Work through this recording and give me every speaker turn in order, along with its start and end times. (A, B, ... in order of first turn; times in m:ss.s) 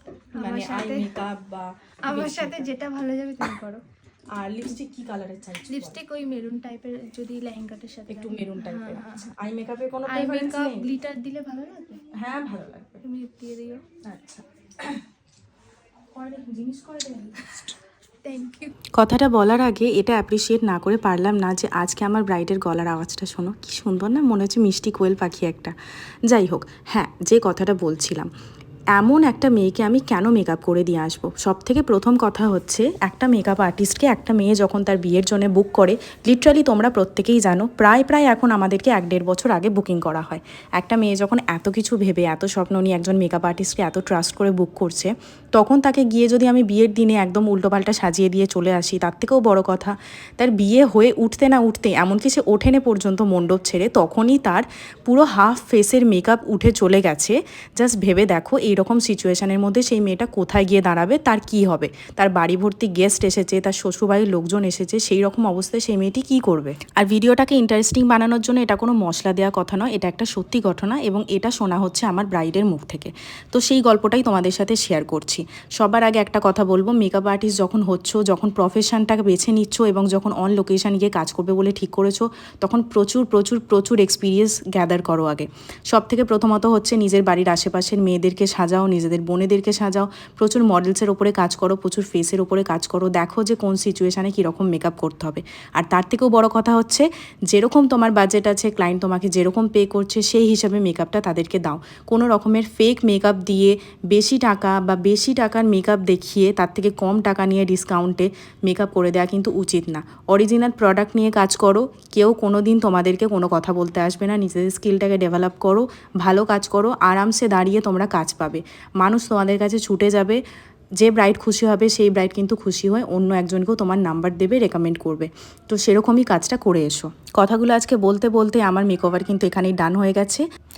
0:00.3-0:01.2 A
0:00.4-0:02.7 B
0:02.1-0:03.8 A
0:04.4-0:06.0 B
0:05.6-0:09.3 A
0:08.1-0:10.9 B
0:10.1-0:12.0 A
0:12.2-0:13.0 B
0:13.0-0:13.8 A
0:14.1-0:15.0 B
0:16.2-0:17.6 B
0:18.2-0:18.7 A
0:19.0-0:25.7 C
0:26.3-0:28.3 C
0:28.9-2:00.4 C
2:01.0-2:10.4 C